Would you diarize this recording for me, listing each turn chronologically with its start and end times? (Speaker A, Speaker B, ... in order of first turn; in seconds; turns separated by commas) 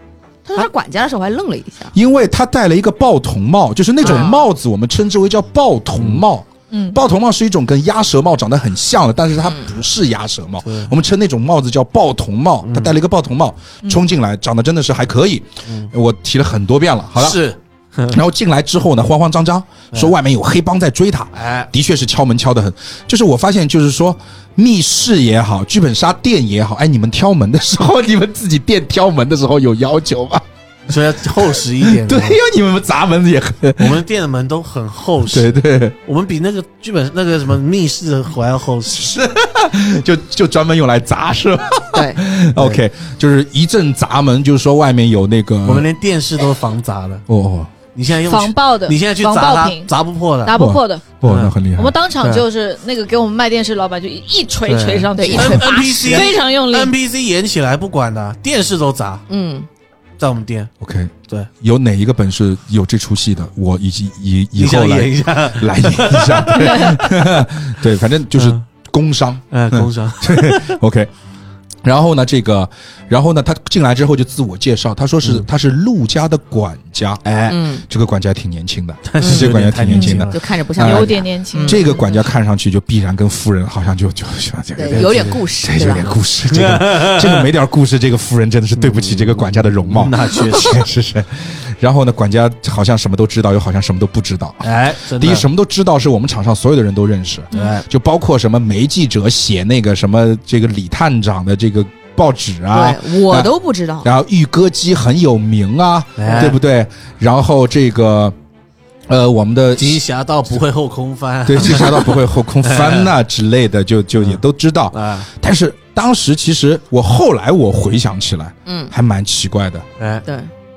Speaker A: 0.5-1.9, Speaker B: 1.9-17.4, Speaker C: 4.0-4.3, Speaker A: 4.0-4.4, Speaker C: 6.0-6.2, Speaker D: 6.7-7.0, Speaker C: 10.6-10.9, Speaker C: 12.6-12.9, Speaker C: 17.1-18.2, Speaker B: 18.1-30.4, Speaker C: 21.3-21.7, Speaker C: 30.9-32.4, Speaker B: 31.4-34.0, Speaker C: 33.8-35.5, Speaker B: 35.2-35.9, Speaker C: 36.0-39.0, Speaker B: 38.9-45.9, Speaker A: 41.9-42.2, Speaker C: 45.6-47.2, Speaker B: 47.3-47.7, Speaker C: 47.9-50.5, Speaker D: 48.3-49.9, Speaker D: 50.4-51.0, Speaker B: 50.5-51.9, Speaker C: 51.2-51.5, Speaker D: 51.7-56.9, Speaker C: 54.6-59.2, Speaker A: 55.1-56.3, Speaker A: 59.3-59.7, Speaker C: 60.2-60.7, Speaker B: 60.8-71.1, Speaker C: 64.5-67.0, Speaker C: 68.3-68.6, Speaker C: 69.5-70.8, Speaker B: 71.8-77.2, Speaker C: 77.2-77.6, Speaker A: 77.5-77.8, Speaker B: 77.8-108.3, Speaker C: 79.0-80.4, Speaker A: 79.2-79.5, Speaker A: 80.2-82.2, Speaker D: 80.8-81.9, Speaker A: 84.8-86.1, Speaker C: 84.9-87.5, Speaker C: 88.8-90.8, Speaker C: 94.6-95.5, Speaker C: 97.5-97.8, Speaker A: 102.7-104.1, Speaker C: 106.2-106.6, Speaker B: 109.1-110.0, Speaker C: 109.7-113.1, Speaker B: 111.5-119.8, Speaker C: 114.2-115.3, Speaker A: 118.7-118.9, Speaker C: 120.0-120.2, Speaker A: 120.2-120.5